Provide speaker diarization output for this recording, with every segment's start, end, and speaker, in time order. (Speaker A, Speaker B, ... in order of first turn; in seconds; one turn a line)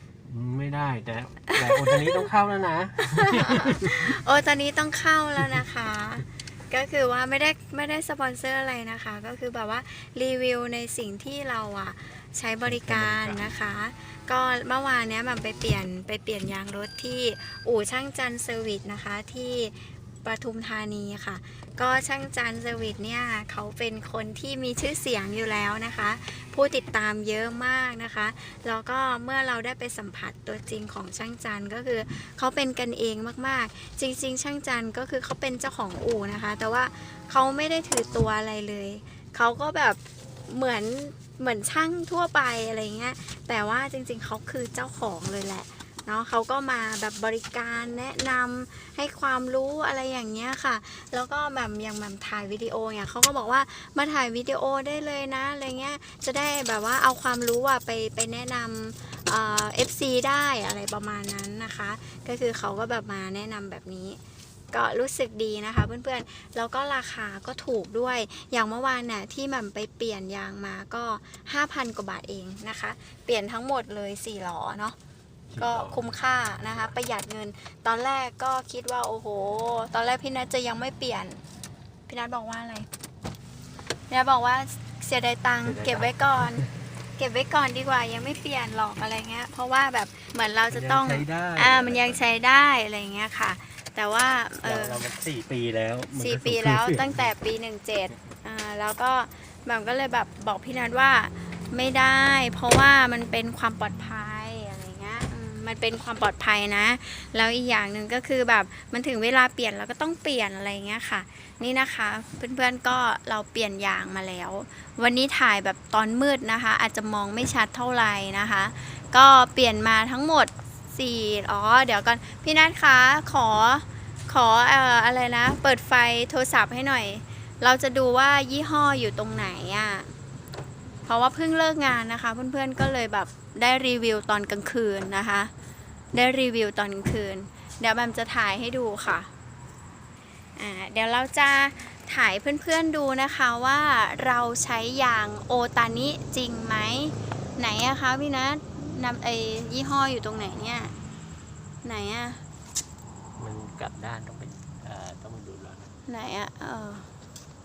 Speaker A: 0.2-4.2
Speaker B: 1.5-2.3
Speaker B: 3.0-64.2
Speaker A: 12.6-13.5
Speaker B: 64.7-75.0
Speaker A: 75.5-76.9
Speaker B: 75.6-81.4
Speaker B: 82.1-82.9
Speaker B: 84.1-86.6
Speaker A: 85.6-86.8
Speaker B: 87.2-95.0
Speaker A: 90.7-92.2
Speaker A: 94.6-97.3
Speaker B: 96.1-130.1
Speaker B: 131.1-135.5
Speaker B: 136.1-139.3
Speaker B: 140.6-150.9
Speaker B: 151.8-152.4
Speaker A: 153.4-155.9
Speaker B: 156.1-157.1